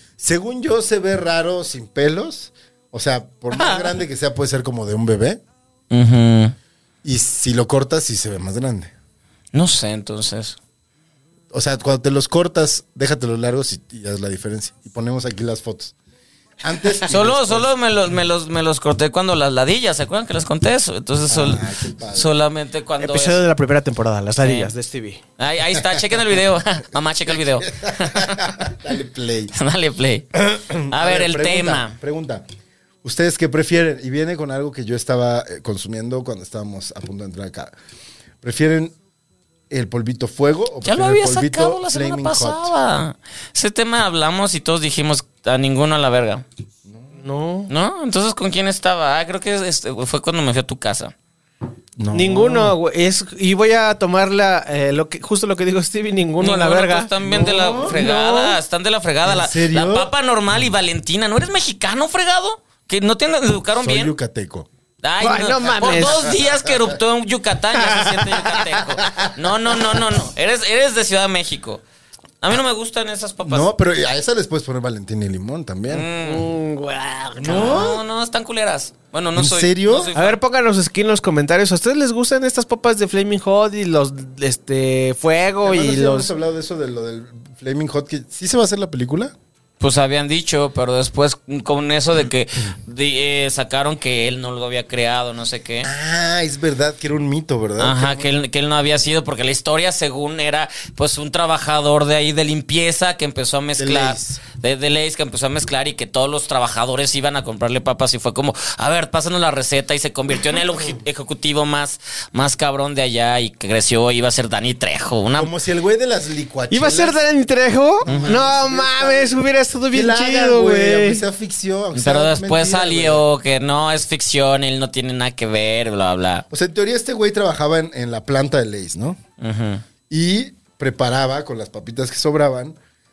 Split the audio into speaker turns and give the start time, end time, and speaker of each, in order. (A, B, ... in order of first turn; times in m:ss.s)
0:00.2-0:05.4 A
0:05.9-0:06.5 B
0:07.0-0:08.9 A
0:09.5-0:10.6 B
0:11.5-0:15.9 A
0:16.6-0:17.7 A
0:17.0-0:23.4 B
0:21.3-0:22.3 A
0:23.0-0:25.2 C
0:24.4-0:24.7 B
0:25.4-0:28.6 B
0:27.3-0:29.5 A
0:29.5-0:31.9 B
0:30.3-0:32.4 A
0:33.0-0:37.7 A
0:38.4-0:38.9 A
0:39.7-0:42.7 A
0:40.8-0:46.4 B
0:47.2-0:47.7 C
0:47.7-0:51.1 B
0:52.0-0:52.8 A
0:52.1-0:57.1 C
0:56.4-1:04.1 B
0:57.2-0:58.0 A
0:57.8-0:58.6 C
0:59.2-1:00.1 A
1:03.8-1:04.7 A
1:05.0-1:11.8 B
1:05.2-1:06.3 C
1:06.0-1:06.8 A
1:07.7-1:08.4 C
1:08.8-1:10.2 A
1:12.4-1:13.7 B
1:13.4-1:16.1 A
1:15.9-1:16.5 B
1:16.2-1:17.8 C
1:17.4-1:18.0 A
1:17.4-1:20.4 B
1:19.3-1:20.1 A
1:20.1-1:26.3 C
1:25.6-1:29.3 A
1:29.8-1:35.9 B
1:35.8-1:38.3 A
1:37.8-1:55.5 B
1:43.8-1:44.4 A
1:55.3-1:57.2 A
1:56.7-2:01.2 C
1:58.0-2:03.2 A
1:58.0-1:58.4 B
2:01.9-2:06.4 B
2:06.5-2:09.2 A
2:09.4-2:09.8 B
2:10.1-2:12.8 A